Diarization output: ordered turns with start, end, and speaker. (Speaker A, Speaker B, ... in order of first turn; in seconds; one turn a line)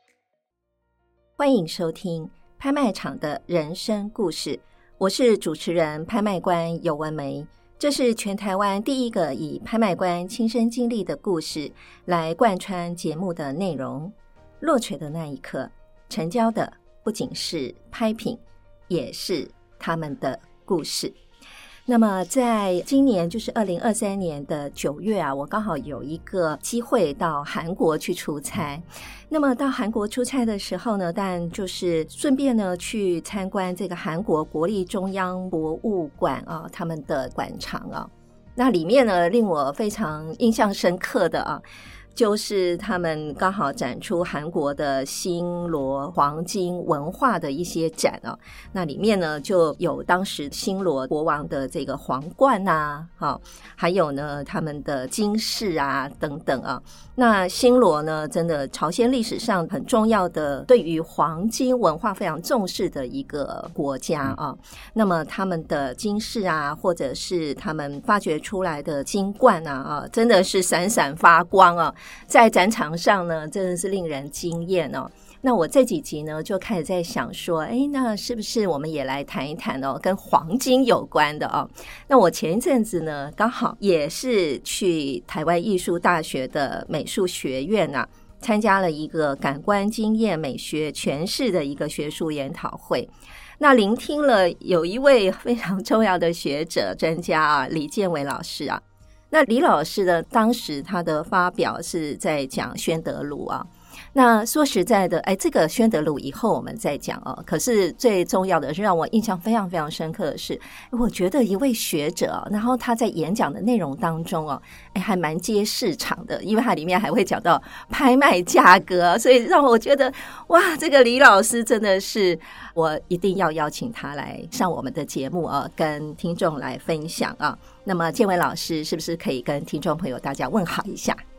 Speaker A: 1.4-21.1
Speaker A: 21.9-41.6
Speaker A: 42.1-131.2